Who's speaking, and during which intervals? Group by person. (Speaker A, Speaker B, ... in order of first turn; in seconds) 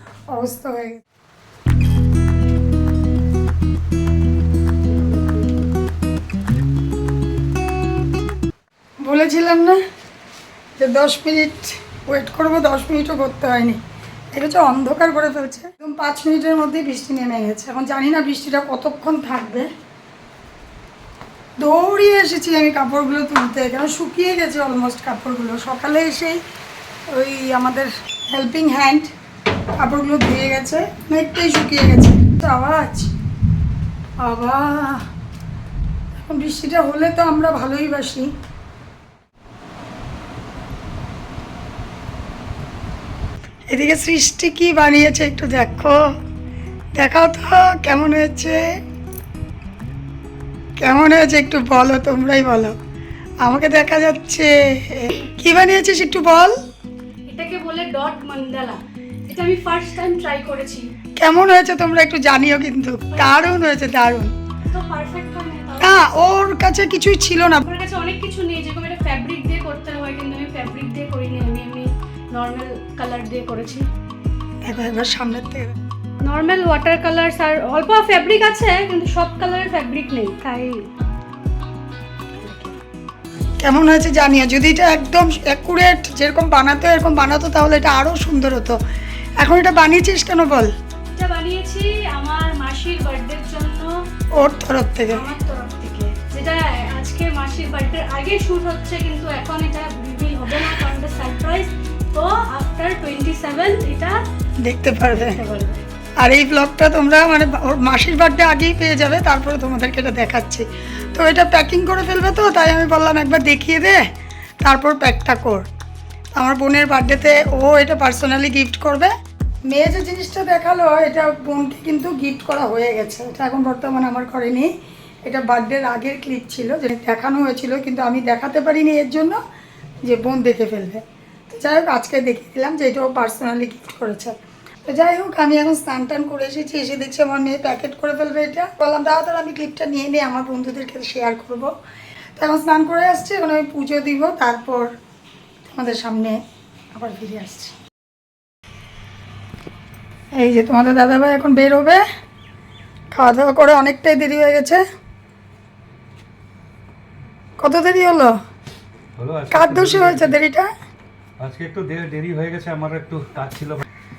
Speaker A: 0.3-1.0, 9.0-9.8, 10.8-13.8, 14.3-19.7, 21.6-26.4, 27.1-29.1, 29.8-33.1, 34.2-35.0, 36.1-38.3, 43.7-46.0, 47.0-48.6, 50.8-52.7, 53.4-56.5, 61.2-64.3, 65.8-67.7, 74.6-75.8, 83.6-88.8, 89.4-90.7, 94.4-95.2, 104.6-105.4, 106.2-114.0, 114.6-115.6, 116.4-119.1, 119.7-124.7, 125.2-129.4, 130.0-134.3, 134.9-141.7, 142.4-144.9, 145.6-146.4, 146.9-147.7, 150.4-152.0, 153.1-154.8, 157.6-158.3, 159.5-160.7
Speaker B: 57.3-60.9, 63.1-63.4, 64.7-66.1, 67.6-73.8, 76.2-80.8, 91.2-93.9, 95.1-104.2, 105.1-105.8
Speaker C: 159.2-160.3, 161.4-163.8